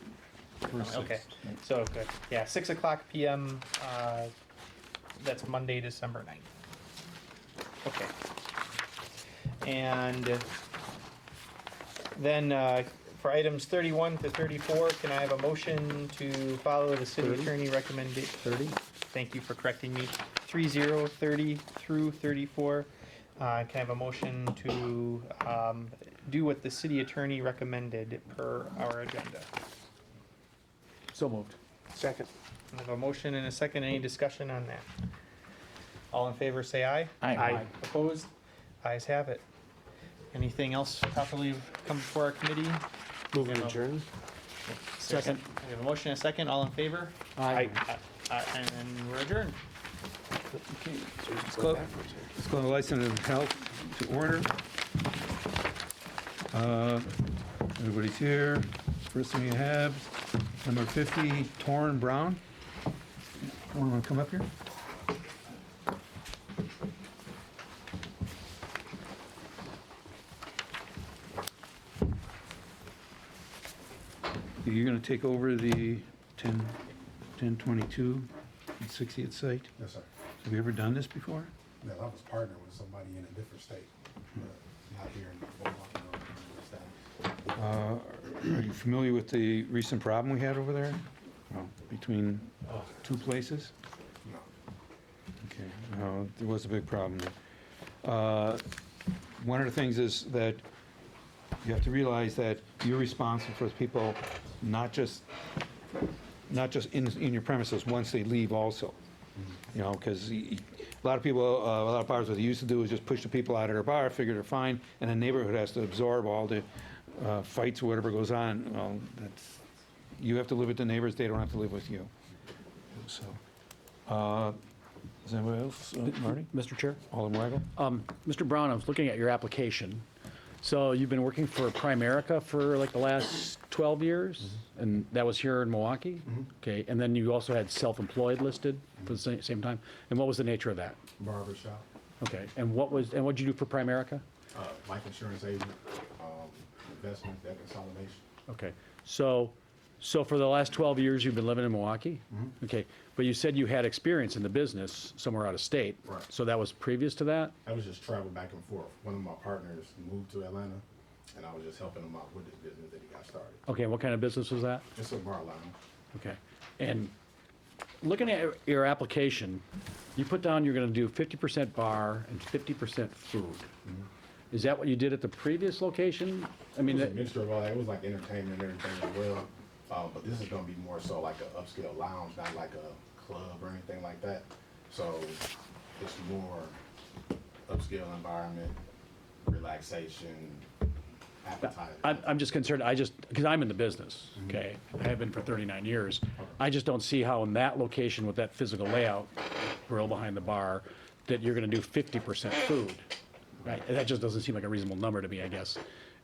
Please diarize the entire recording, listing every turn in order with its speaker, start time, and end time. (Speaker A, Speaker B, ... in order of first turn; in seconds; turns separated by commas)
Speaker A: 0.6-4.3, Speaker A: 5.2-6.5, Speaker A: 7.8-8.1, Speaker A: 9.6-10.5, Speaker A: 12.1-18.5, Speaker B: 17.2-17.5, Speaker B: 18.4-18.8, Speaker A: 19.1-29.5, Speaker B: 31.1-31.6, Speaker C: 31.9-32.3, Speaker A: 32.7-34.9, Speaker A: 36.1-38.3, Speaker C: 37.2-37.6, Speaker A: 38.8-39.4, Speaker A: 40.3-43.8, Speaker C: 43.3-44.0, Speaker A: 44.7-49.6, Speaker B: 45.0-45.4, Speaker B: 47.4-47.7, Speaker C: 47.5-47.7, Speaker D: 50.5-54.5, Speaker C: 51.2-52.3, Speaker D: 56.5-62.4, Speaker D: 63.4-64.5, Speaker D: 74.6-76.8, Speaker D: 77.3-79.7, Speaker E: 79.8-80.0, Speaker D: 80.4-81.5, Speaker E: 81.8-86.9, Speaker D: 87.5-93.7, Speaker D: 95.4-97.3, Speaker D: 98.0-98.7, Speaker D: 99.4-100.6, Speaker D: 101.6-105.3, Speaker D: 106.5-109.0, Speaker D: 109.7-119.6, Speaker D: 120.2-122.1, Speaker D: 122.9-123.4, Speaker D: 124.0-124.5, Speaker D: 125.2-126.5, Speaker B: 126.1-127.0, Speaker D: 127.1-127.7, Speaker B: 127.7-130.0, Speaker B: 130.6-141.0, Speaker E: 141.2-141.8, Speaker B: 142.2-144.2, Speaker E: 144.5-148.2, Speaker B: 148.5-157.5, Speaker E: 152.3-152.5, Speaker E: 157.6-160.8, Speaker E: 161.3-163.6, Speaker B: 163.7-164.8, Speaker E: 164.9-165.7, Speaker B: 166.1-167.1, Speaker B: 168.0-169.6, Speaker B: 170.2-173.7, Speaker B: 174.5-177.2, Speaker E: 176.8-185.4, Speaker E: 186.0-186.8, Speaker E: 187.7-188.8, Speaker E: 189.4-190.7, Speaker E: 191.4-192.4, Speaker B: 191.6-203.0, Speaker B: 203.6-205.8